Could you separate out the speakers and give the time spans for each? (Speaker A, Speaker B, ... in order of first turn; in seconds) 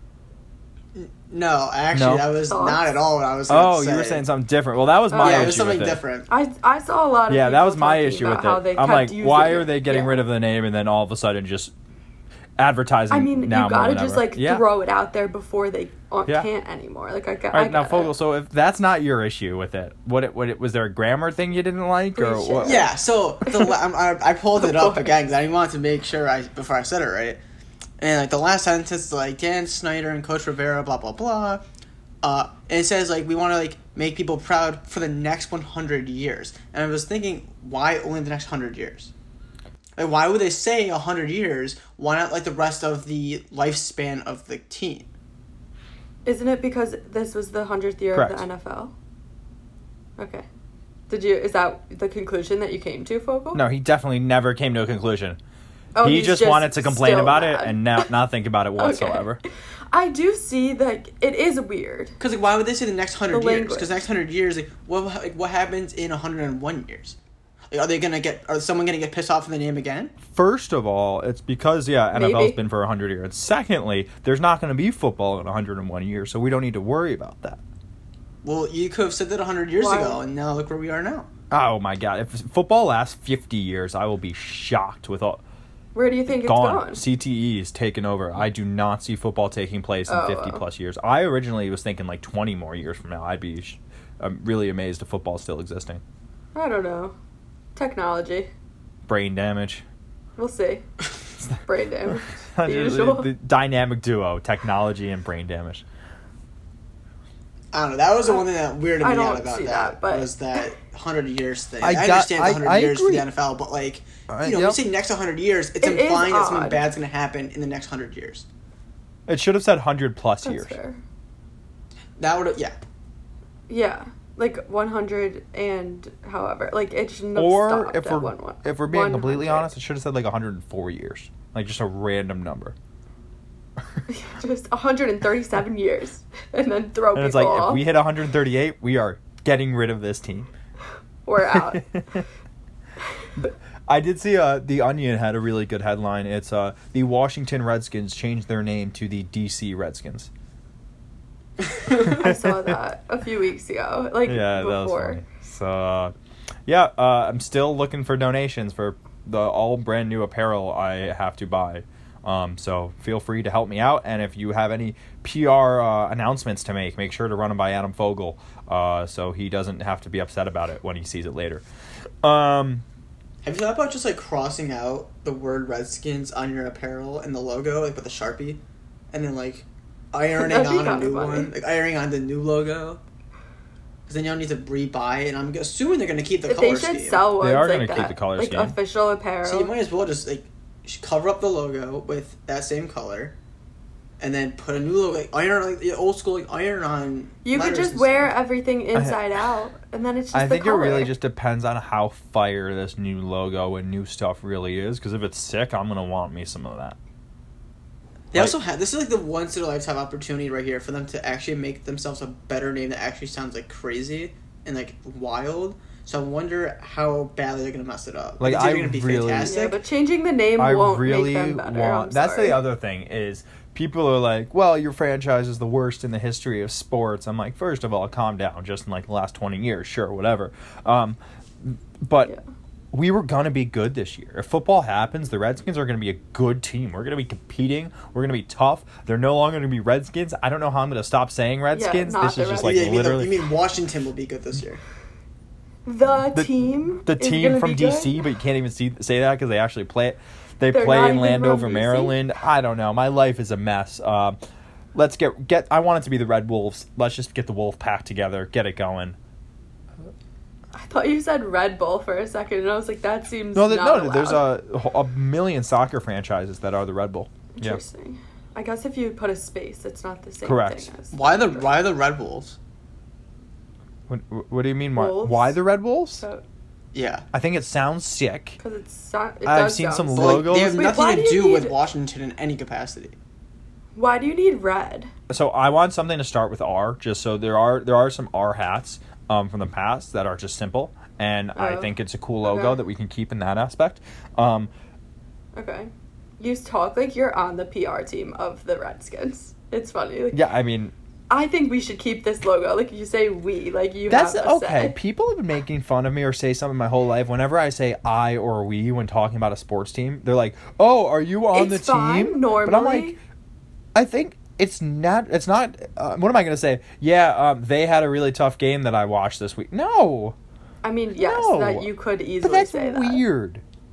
Speaker A: 0.9-4.2, 5.2-6.3, 22.6-27.4, 28.0-31.6, 32.2-39.1, 40.0-45.1, 62.2-67.2, 67.7-70.1, 78.4-81.3, 107.7-118.5, 122.2-122.8, 173.4-178.6, 179.1-183.0, 184.1-187.2, 189.4-193.3, 194.2-198.3, 208.3-219.8, 242.6-244.8, 271.1-272.6, 276.9-277.2, 280.1-283.1
Speaker B: 1.9-2.3, 3.5-6.0, 7.3-11.7, 12.6-14.6, 17.5-22.9, 48.1-48.4, 53.5-55.4, 56.0-59.4, 70.2-77.6, 81.5-85.4, 86.3-96.0, 99.1-99.8, 102.1-105.8, 111.8-113.2, 114.3-114.8, 119.3-120.8, 127.3-132.7, 137.1-140.5, 141.4-142.2, 143.4-150.3, 152.0-152.7, 154.2-156.1, 156.7-171.6, 172.2-172.8, 187.4-188.8, 198.9-199.2, 200.3-207.0, 218.4-219.5, 220.6-232.3, 232.9-243.4, 247.0-254.4, 254.9-259.2, 263.5-267.8, 270.4-270.9, 274.1-276.2, 277.3-278.6, 279.4-280.8, 285.3-294.7, 300.3-300.9, 304.1-313.2, 313.9-320.4, 321.1-321.9, 322.4-323.6
Speaker C: 2.5-2.9, 5.1-5.6, 6.3-10.2, 13.1-18.1, 22.1-23.7, 24.6-25.1, 46.2-48.9, 50.2-50.5, 51.1-53.6, 55.9-58.0, 58.8-62.1, 63.3-64.0, 72.1-72.6, 79.8-80.2, 85.9-87.0, 90.1-90.6, 96.5-97.1, 97.8-98.5, 100.4-100.8, 101.6-103.3, 109.0-110.6, 115.8-116.8, 120.4-121.0, 123.7-129.7, 134.1-137.8, 141.2-141.8, 151.9-155.2, 180.4-181.5, 186.4-189.7, 197.4-201.1, 219.4-222.6, 241.7-242.8, 245.8-248.2, 250.7-252.2, 260.7-264.4, 267.5-271.7, 274.9-275.6, 278.6-281.8, 283.9-285.1, 291.6-291.9, 292.4-292.8, 295.6-300.4, 301.3-304.9, 311.5-313.1, 320.8-323.2